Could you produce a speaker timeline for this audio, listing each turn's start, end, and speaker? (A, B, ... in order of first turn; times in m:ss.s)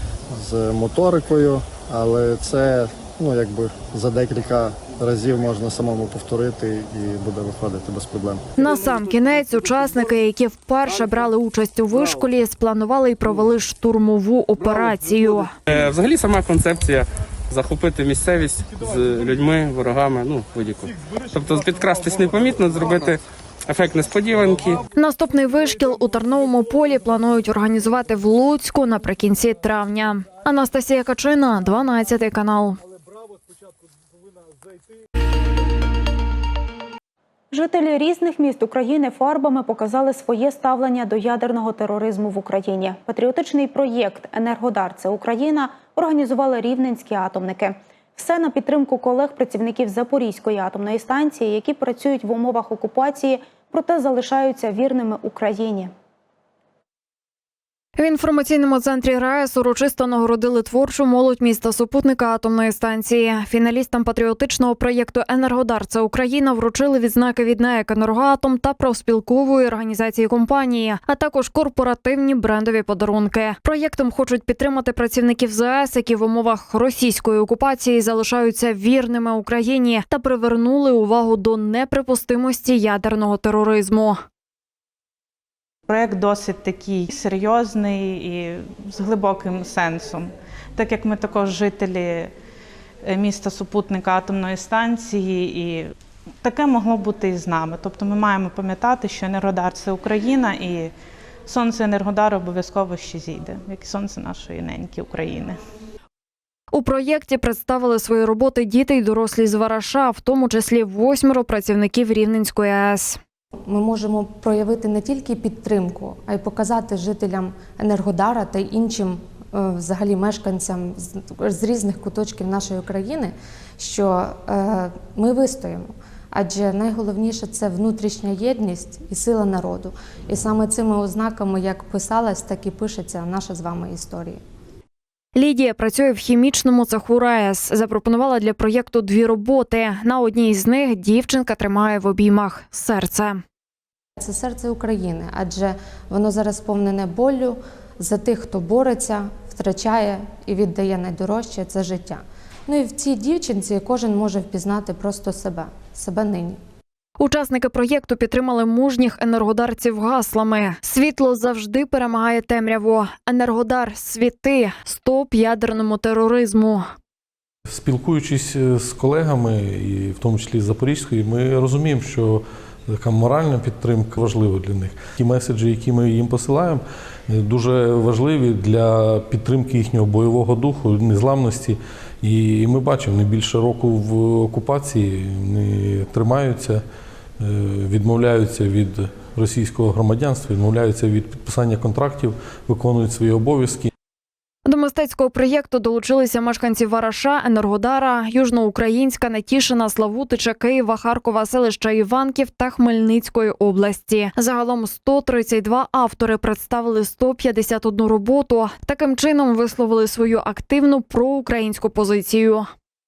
0:00.3-0:08.4 A
0:08.6-0:15.5 B
0:15.7-0:24.8 C
0:24.9-0:32.8 B
0:37.5-0:55.9 D
0:58.0-1:24.2 B
1:25.9-1:32.3 E
1:33.0-1:35.9 E
1:36.4-1:40.9 E
1:41.5-1:45.6 E
1:46.7-1:53.2 B
1:53.6-2:14.4 F
2:15.4-2:23.4 B
2:24.2-2:36.6 F
2:37.2-2:46.9 B
2:47.7-3:06.8 G
3:07.4-3:13.9 G
3:14.6-3:32.7 B